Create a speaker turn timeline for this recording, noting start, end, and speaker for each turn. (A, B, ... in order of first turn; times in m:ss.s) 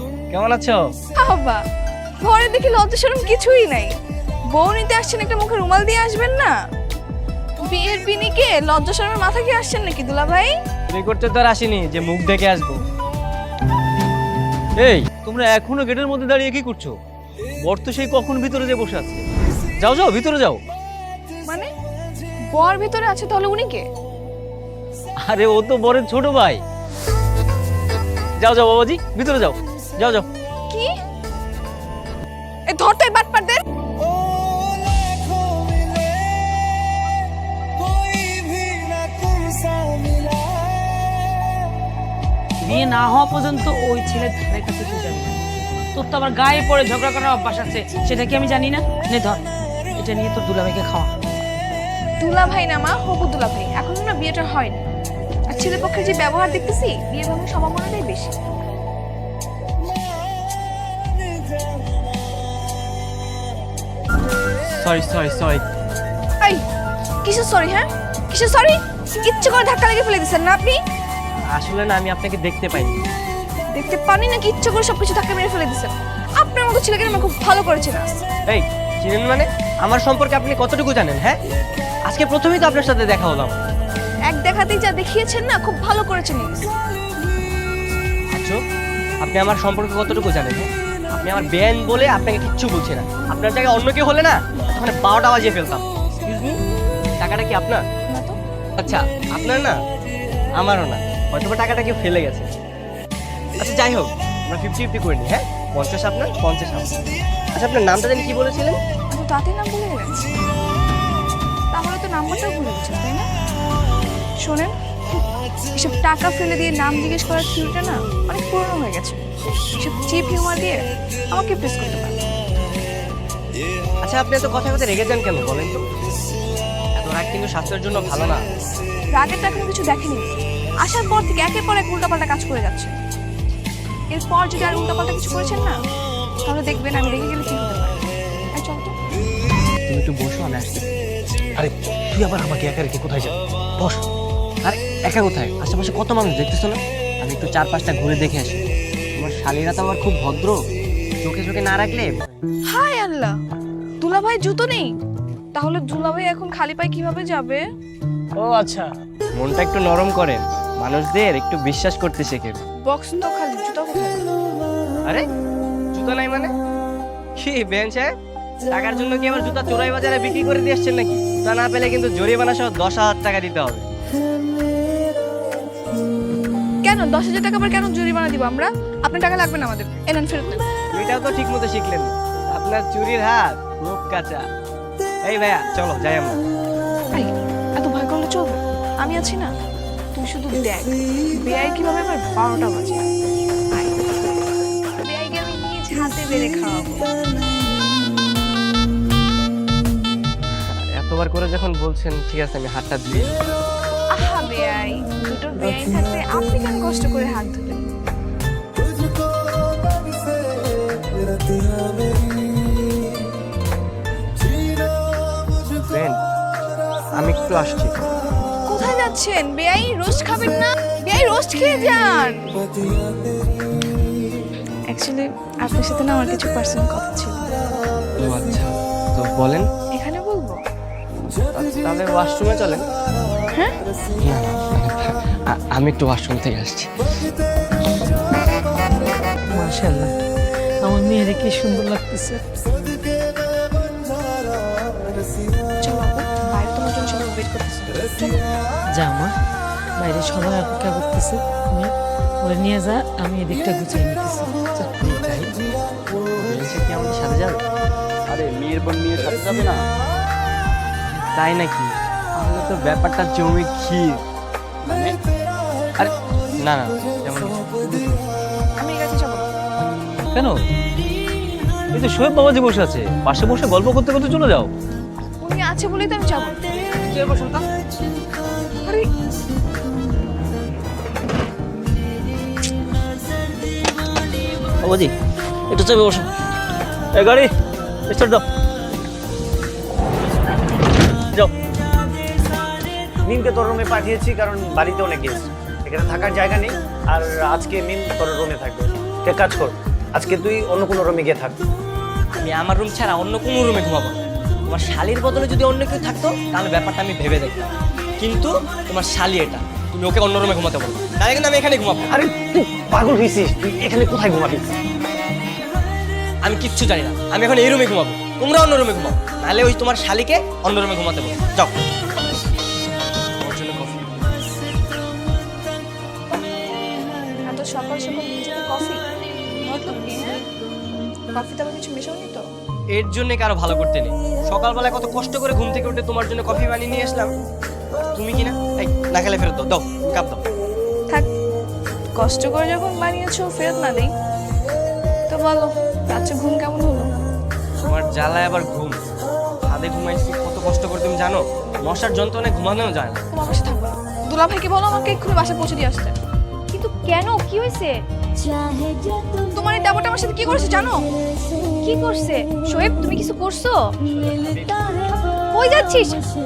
0:00.3-0:00.8 A
0:01.2-0:01.6 B
0:02.2-0:03.9 B
0:04.5-0:06.5 B
0:07.6-0:10.5 B
0:10.9-0:12.8 A
0:14.8-0:15.0 A
0:15.2-0:17.0 C
0:17.6-0:19.2 C
0:19.8-0:20.6 A
0:19.8-0:20.6 C
0:22.5-0:23.8 B
0:25.2-0:26.6 C
0:28.4-0:29.6 C
0:28.4-0:30.2 A
0:32.7-0:33.6 B
0:42.6-0:45.4 D
0:45.9-0:51.1 D
0:52.2-0:54.8 B
0:55.5-0:58.3 B
1:04.7-1:05.6 A
1:07.2-1:10.8 B
1:11.4-1:13.0 A
1:13.7-1:18.2 B
1:18.5-1:21.4 A
1:22.0-1:23.6 A
1:24.3-1:26.7 B
1:28.3-1:28.6 A
1:29.2-1:36.6 A
1:37.2-1:37.8 A
1:38.1-1:38.4 B
1:38.8-1:39.8 A
1:40.6-1:42.5 A
1:43.6-1:47.0 A
1:47.5-1:48.8 A
1:49.1-1:50.2 B
1:51.7-1:53.3 B
1:54.4-1:54.7 B
1:55.7-1:59.2 B
1:59.8-2:02.2 B
2:04.0-2:05.8 A
2:06.9-2:08.5 A
2:09.1-2:10.2 B
2:10.8-2:12.9 B
2:14.1-2:15.8 B
2:16.4-2:18.0 B
2:18.6-2:18.9 B
2:19.9-2:20.9 A
2:21.6-2:24.0 E
2:24.6-2:28.6 A
2:29.2-2:30.6 A
2:31.2-2:32.2 A
2:32.7-2:33.4 B
2:34.0-2:34.9 B
2:35.5-2:37.6 B
2:38.4-2:42.6 A
2:42.9-2:44.2 B
2:45.9-2:46.5 A
2:47.4-2:48.1 A
2:48.7-2:53.8 A
2:56.8-3:00.6 B
3:00.9-3:04.4 A
3:05.2-3:06.4 A
3:07.1-3:09.5 B
3:10.2-3:13.1 B
3:13.7-3:14.2 B
3:15.0-3:17.1 B
3:20.5-3:23.4 A
3:24.1-3:27.8 B
3:35.8-3:36.2 A
3:37.2-3:38.0 A
3:38.7-3:42.6 B
3:44.9-3:47.4 B
3:48.2-3:49.7 A
3:49.9-3:50.6 B
3:51.5-3:52.8 A
3:54.2-3:56.9 A
3:59.5-4:00.1 D
4:00.8-4:02.4 D
4:05.8-4:08.4 B
4:08.9-4:09.3 D
4:10.0-4:15.4 D
4:16.4-4:17.6 A
4:18.3-4:19.8 C
4:21.3-4:24.2 A
4:24.8-4:25.2 C
4:26.0-4:28.1 A
4:28.8-4:29.5 B
4:30.3-4:30.6 C
4:31.9-4:34.7 C
4:32.5-4:33.8 A
4:35.4-4:36.6 B
4:44.8-4:45.1 C
4:45.7-4:46.2 C
4:47.1-4:47.5 C
4:48.1-4:48.4 C
4:53.2-5:01.6 E
5:02.4-5:07.6 A
5:08.2-5:12.1 A
5:12.1-5:14.6 E
5:16.4-5:21.7 A
5:23.4-5:24.4 A
5:27.4-5:29.0 B
5:29.6-5:30.4 B
5:31.3-5:32.4 B
5:32.9-5:37.3 A
5:38.1-5:40.4 A
5:42.2-5:44.1 B
5:45.3-5:47.1 B
5:47.8-5:49.0 A
5:49.6-5:53.2 A
5:53.3-5:56.1 B
5:56.7-5:57.9 F
5:59.5-6:01.0 B
6:01.8-6:03.8 F
6:04.3-6:04.7 A
6:05.5-6:06.2 F